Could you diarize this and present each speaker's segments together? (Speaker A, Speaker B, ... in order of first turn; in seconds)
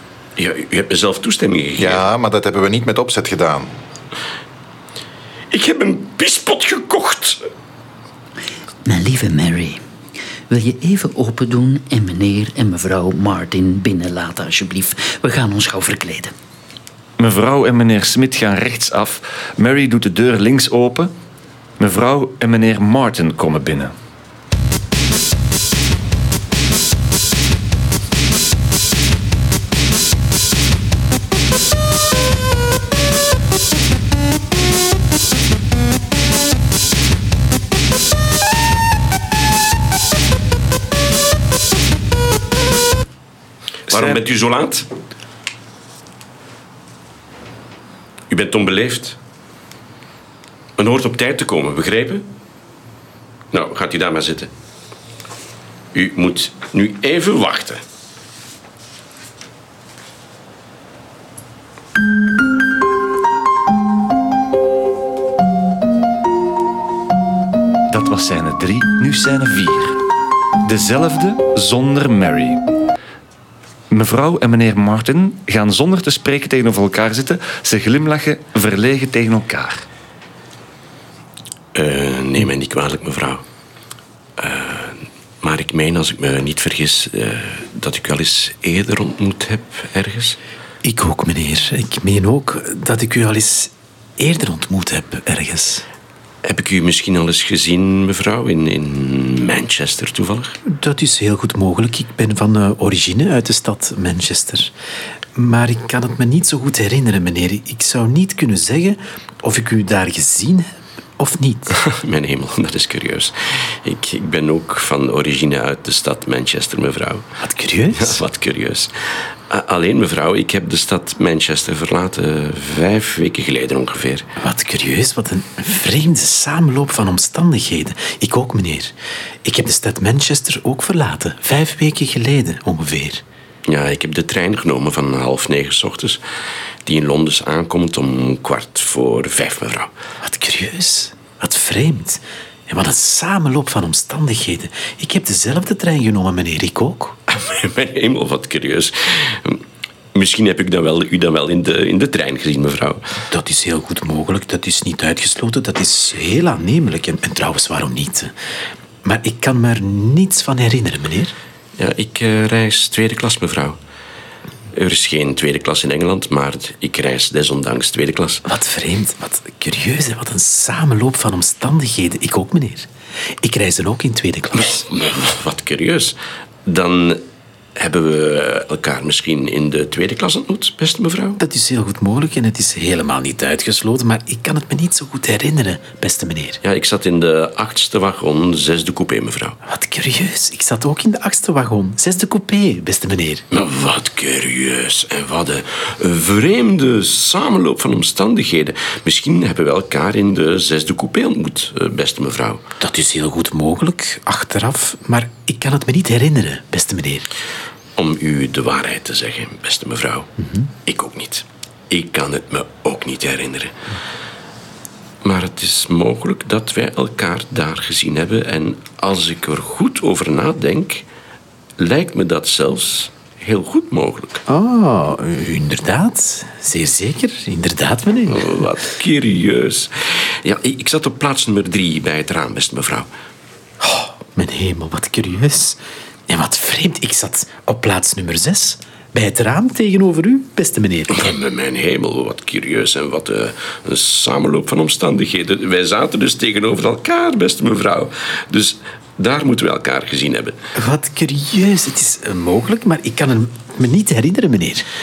Speaker A: 0.4-2.0, 5.5-7.5, 43.9-44.9, 48.3-49.2, 50.8-52.2, 53.5-54.5, 55.9-57.8, 81.7-83.4, 84.4-90.4, 96.4-100.6, 111.7-117.2, 118.0-124.3, 133.7-136.2, 136.8-139.9, 147.3-149.6, 150.1-153.2, 161.8-163.8, 164.7-168.4, 174.6-176.2, 176.7-177.2, 177.8-181.4, 186.6-189.6, 193.5-202.6, 208.0-210.3, 210.9-213.7, 215.2-221.0, 221.8-224.4, 228.3-233.1, 241.1-250.6
Speaker B: 1.8-3.7
Speaker C: 8.8-9.8, 10.5-16.3
Speaker D: 17.2-21.1, 21.8-23.9, 43.9-44.2, 67.9-70.0, 70.7-72.6, 73.9-79.8
Speaker E: 90.8-95.8, 100.7-104.7, 105.4-111.7, 117.4-118.2, 124.4-128.9, 129.4-133.2, 140.2-147.2, 153.3-158.3, 159.0-161.3, 168.5-172.9, 173.4-174.8, 181.4-186.6, 189.7-193.4, 202.8-207.3, 210.4-210.7, 224.5-228.6, 233.8-241.3, 250.8-254.8